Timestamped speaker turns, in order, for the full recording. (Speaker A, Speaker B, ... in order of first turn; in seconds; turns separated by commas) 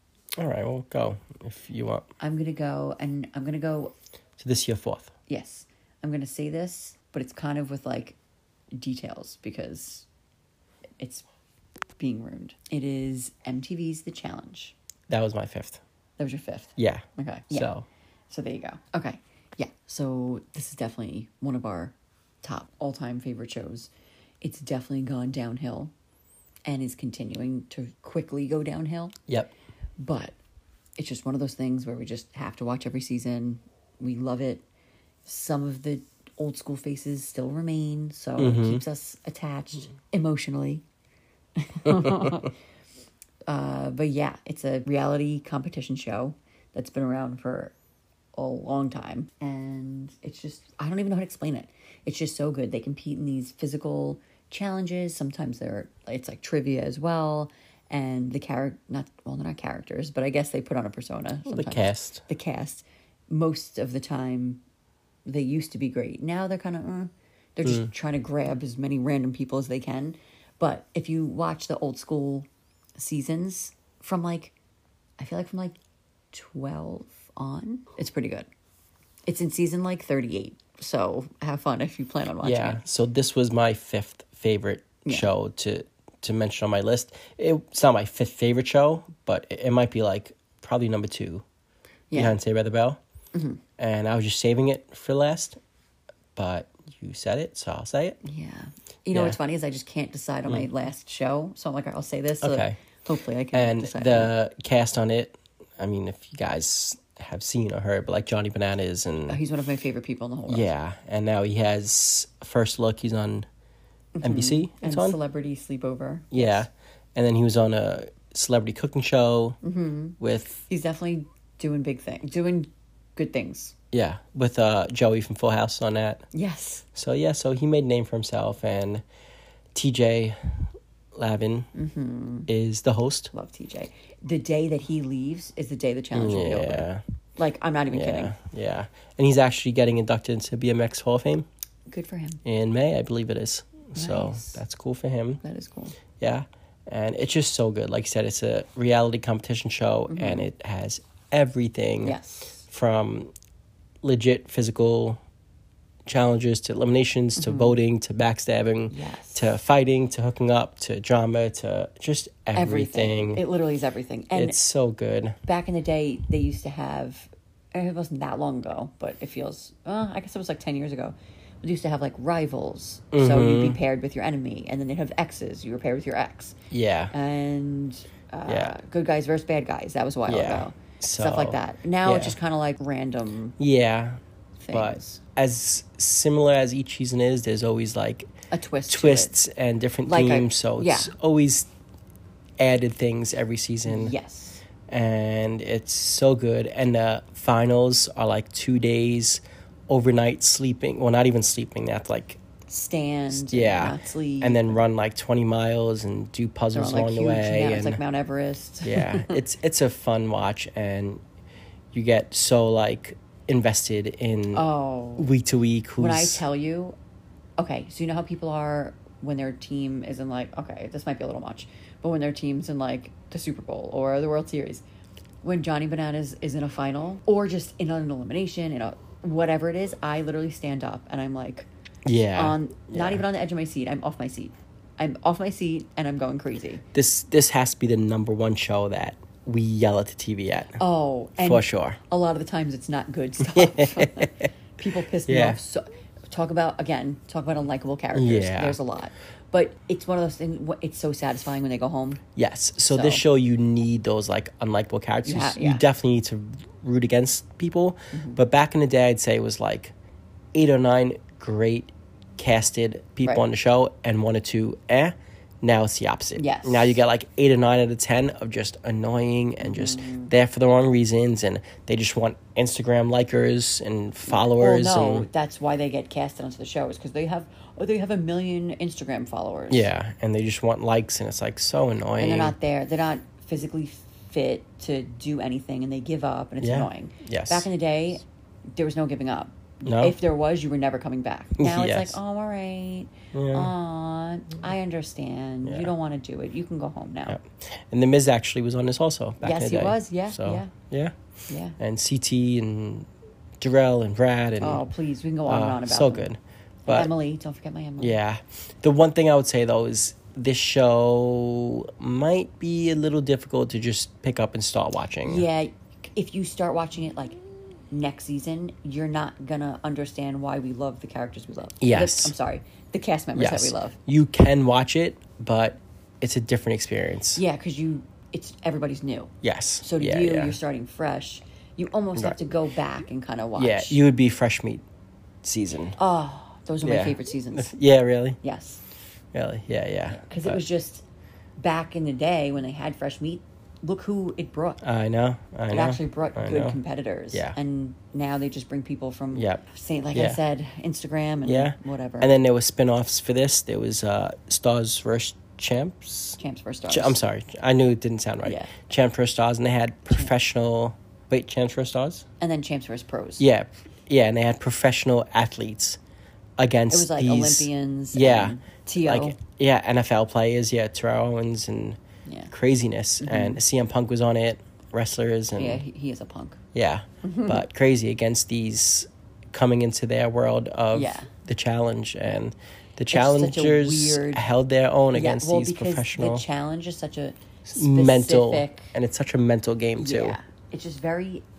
Speaker A: 0.4-2.1, Speaker B: 2.2-3.9, Speaker A: 4.4-5.1, Speaker B: 5.3-8.2, Speaker B: 8.7-10.1, Speaker B: 11.0-11.2, Speaker B: 12.0-14.8, Speaker A: 15.1-15.8, Speaker B: 16.2-17.7, Speaker A: 16.8-17.9, Speaker B: 18.3-23.9, Speaker B: 24.4-25.9, Speaker B: 26.7-29.1, Speaker B: 30.0-30.4, Speaker B: 31.0-34.6, Speaker B: 35.3-40.8, Speaker A: 38.4-38.8, Speaker B: 41.6-42.5, Speaker A: 41.9-42.4, Speaker B: 43.5-47.7, Speaker B: 48.3-64.6, Speaker A: 61.5-62.2, Speaker B: 65.3-74.5, Speaker B: 75.2-75.8, Speaker B: 76.3-78.5, Speaker B: 79.3-82.8, Speaker A: 82.4-91.4, Speaker B: 92.1-92.4, Speaker A: 92.1-93.0, Speaker B: 93.3-93.6, Speaker A: 93.8-95.6, Speaker A: 96.4-98.2, Speaker B: 98.2-104.3, Speaker A: 99.1-99.4, Speaker A: 102.4-102.8, Speaker A: 103.5-109.4, Speaker B: 109.3-110.7, Speaker A: 110.5-113.5, Speaker B: 114.2-116.6, Speaker A: 114.2-115.2, Speaker A: 116.3-119.6, Speaker B: 119.6-123.8, Speaker A: 120.2-120.6, Speaker A: 123.9-126.2, Speaker B: 126.3-126.8, Speaker A: 127.0-129.0, Speaker A: 129.7-131.7, Speaker B: 131.8-132.5, Speaker A: 132.5-133.3, Speaker B: 133.3-136.9, Speaker A: 136.1-137.0, Speaker B: 137.4-138.3, Speaker A: 137.9-141.5, Speaker B: 141.9-142.4, Speaker A: 142.4-145.4, Speaker B: 143.9-144.6, Speaker B: 145.4-145.9, Speaker A: 146.2-152.2, Speaker B: 150.1-150.5, Speaker B: 152.0-152.6, Speaker A: 152.7-153.3, Speaker A: 154.0-155.2, Speaker A: 156.1-163.4, Speaker B: 157.4-157.8, Speaker B: 158.9-159.5, Speaker B: 162.6-164.6, Speaker A: 164.3-165.4, Speaker B: 165.4-176.6, Speaker A: 173.1-173.8, Speaker A: 176.7-177.1, Speaker B: 177.1-183.6, Speaker A: 178.5-178.8, Speaker A: 180.3-182.4, Speaker A: 183.6-184.2, Speaker B: 184.6-185.2, Speaker A: 184.7-188.3, Speaker B: 188.5-189.3, Speaker A: 188.9-191.7, Speaker B: 190.1-191.1, Speaker A: 192.6-194.2, Speaker B: 193.8-194.6, Speaker A: 194.9-202.4, Speaker B: 202.7-204.8, Speaker A: 203.3-208.0, Speaker B: 206.7-209.4, Speaker A: 208.8-211.2, Speaker A: 211.9-216.4, Speaker B: 214.5-215.3, Speaker B: 216.0-217.0, Speaker B: 217.6-224.8, Speaker B: 225.4-231.7, Speaker A: 232.1-233.2, Speaker B: 232.3-236.8, Speaker A: 236.9-240.8, Speaker B: 240.8-252.2, Speaker A: 241.4-242.0, Speaker A: 243.4-244.5, Speaker A: 245.3-245.6, Speaker A: 248.1-248.8, Speaker A: 252.4-259.9, Speaker B: 252.9-253.2, Speaker B: 255.2-255.8, Speaker B: 258.1-258.4, Speaker A: 260.5-275.3, Speaker B: 266.4-267.0, Speaker B: 269.6-270.3, Speaker B: 274.3-279.9, Speaker A: 279.7-282.6, Speaker B: 282.2-297.4, Speaker A: 286.6-287.7, Speaker A: 289.9-290.2, Speaker A: 291.6-292.2, Speaker A: 293.3-293.7, Speaker A: 295.6-295.9, Speaker A: 297.3-301.1, Speaker B: 299.4-300.7, Speaker B: 301.5-301.8, Speaker A: 301.8-303.1, Speaker A: 303.6-304.9, Speaker B: 304.6-306.3, Speaker A: 305.5-307.1, Speaker B: 306.9-308.2, Speaker A: 308.0-315.5, Speaker B: 315.2-317.4, Speaker B: 317.9-324.0, Speaker A: 321.8-322.3, Speaker A: 323.4-327.4, Speaker B: 327.4-334.0, Speaker A: 329.4-330.6, Speaker A: 333.6-334.8, Speaker A: 335.4-336.0, Speaker B: 336.0-337.7, Speaker A: 336.8-338.4, Speaker B: 338.4-338.8, Speaker A: 339.3-340.6, Speaker B: 340.1-341.0, Speaker B: 341.6-344.8, Speaker A: 344.8-346.8, Speaker B: 345.7-352.3, Speaker A: 347.3-347.6, Speaker A: 349.3-350.4, Speaker A: 351.4-362.2, Speaker B: 356.4-357.2, Speaker B: 358.4-358.7, Speaker B: 362.4-363.4, Speaker A: 363.4-366.0, Speaker A: 366.6-372.0, Speaker B: 366.9-369.4, Speaker B: 372.2-372.5, Speaker A: 372.5-375.8, Speaker B: 373.2-373.6, Speaker B: 375.6-376.6, Speaker A: 376.7-386.4, Speaker B: 377.2-377.6, Speaker B: 380.9-381.3, Speaker B: 383.1-384.4, Speaker B: 385.1-388.9, Speaker A: 387.7-390.4, Speaker B: 390.0-391.4